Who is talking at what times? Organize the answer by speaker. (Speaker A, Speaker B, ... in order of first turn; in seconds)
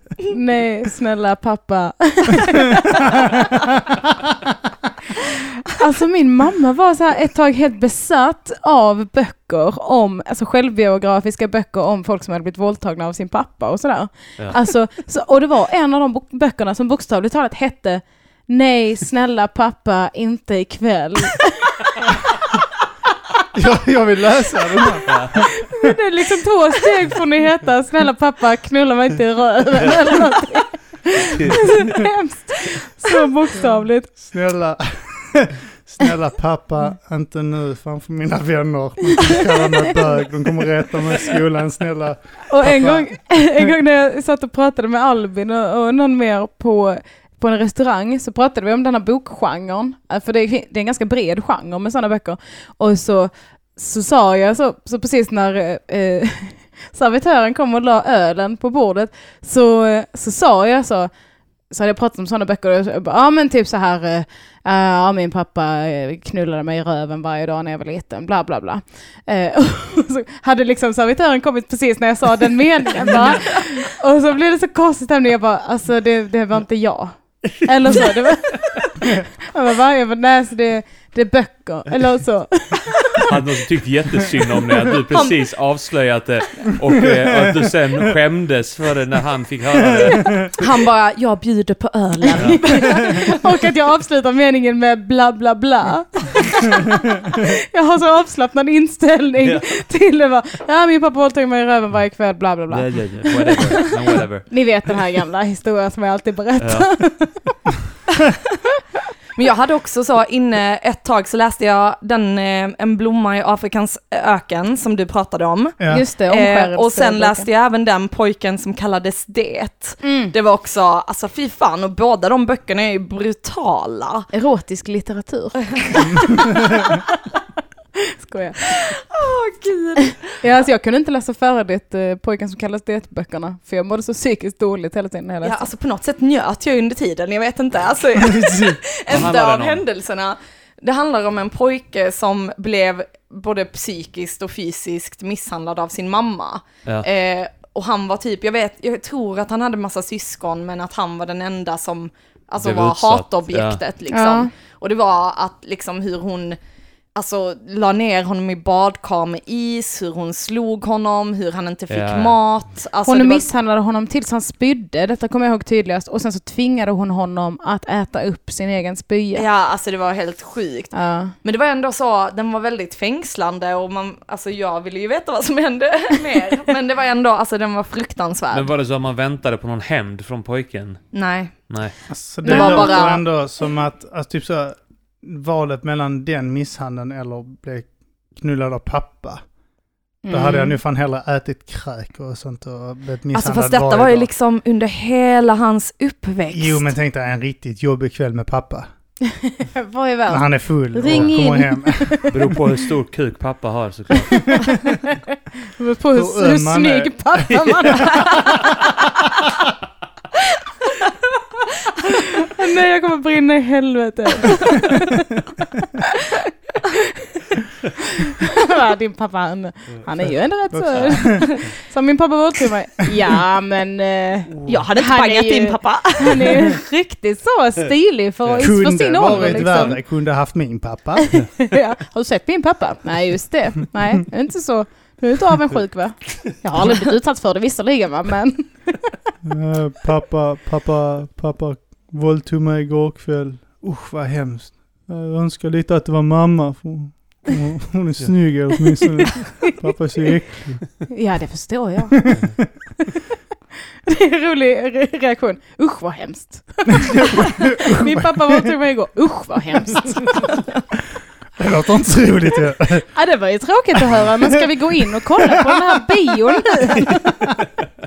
Speaker A: 0.3-3.3, 5.8-21.9, 25.6-34.2, 42.5-61.1, 61.7-83.3, 92.2-107.6, 115.9-117.5, 120.0-120.3, 124.3-127.0, 128.2-128.7, 130.4-135.6, 154.1-154.5, 163.1-169.5, 170.9-171.3, 182.5-183.1, 190.2-190.7, 199.3-202.5, 205.1-208.4, 212.0-215.5, 218.0-230.0, 231.2-238.8, 251.1-252.3, 254.1-260.5, 263.1-267.3
Speaker B: 23.5-25.9, 33.6-43.1, 87.1-88.1, 89.9-90.5, 115.8-116.0, 138.2-138.8, 182.1-189.4, 190.3-194.3, 196.5-198.9, 200.3-202.6, 204.3-204.8, 206.1-208.8, 220.7-221.5, 224.5-224.9, 228.6-231.3, 239.4-251.0, 252.3-252.6, 257.2-258.7, 261.6-263.1, 264.2-265.5, 267.0-267.5
Speaker C: 31.3-31.8, 83.2-90.6, 99.4-99.8, 102.7-104.5, 106.6-106.9, 139.1-139.8, 152.6-153.8, 161.9-162.4, 178.5-181.0, 181.7-181.9, 202.3-204.6, 220.9-221.2
Speaker D: 90.5-93.4, 109.4-124.3, 125.6-126.1, 128.7-130.2, 135.4-156.6, 157.2-163.5, 169.3-178.7, 181.1-181.5, 182.4-183.2, 193.3-196.9, 224.7-226.6